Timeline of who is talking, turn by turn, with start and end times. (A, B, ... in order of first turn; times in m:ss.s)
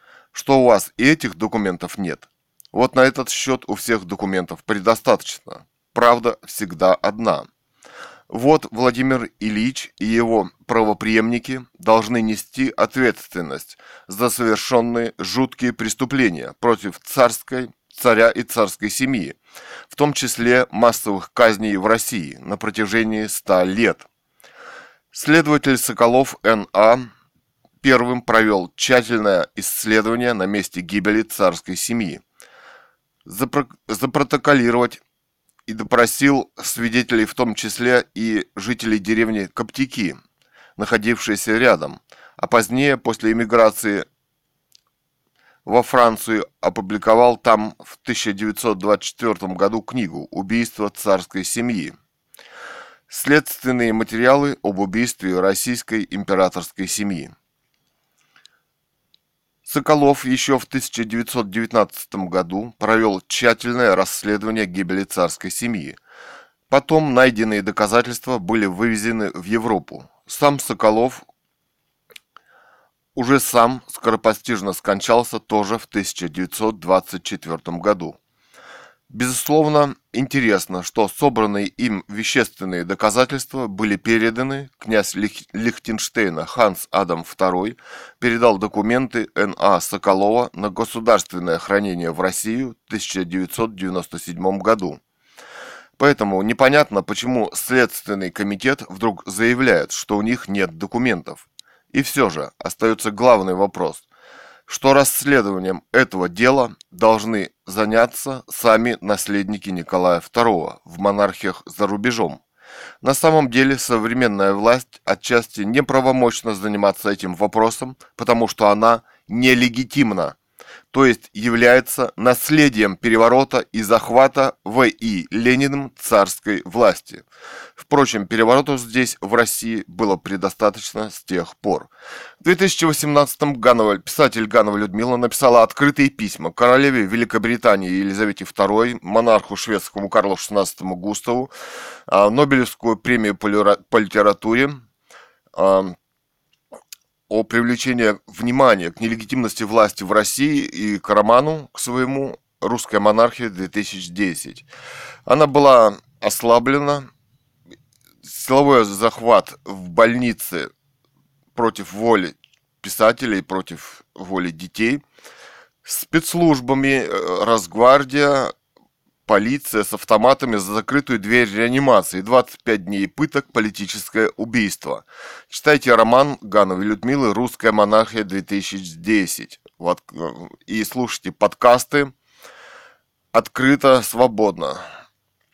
0:00.3-0:07.5 A
0:08.3-0:19.4 A
0:19.9-0:24.0 A
0:25.1-0:27.1 A
0:27.8-0:32.2 A
0:33.2-0:35.0 A
0:35.7-0:40.2 A
0:40.8-0:44.1 A
0:45.6-0:51.9 A
0:53.1-0:57.3 A
0:59.6-1:06.0 A
1:06.7-1:11.2 A
1:13.1-1:18.2 A
1:19.1-1:35.0 A
1:36.0-1:44.0 A
1:44.7-1:52.4 A
1:53.0-2:00.4 A
2:00.9-2:07.2 A
2:07.8-2:11.9 A
2:12.4-2:21.5 A
2:22.1-2:24.8 A
2:25.5-2:25.9 A
2:27.3-2:34.6 A
2:35.2-2:37.1 A
2:38.2-2:40.7 A
2:41.5-2:45.0 A
2:45.8-2:48.5 A
2:49.2-3:02.1 A
3:03.3-3:04.8 A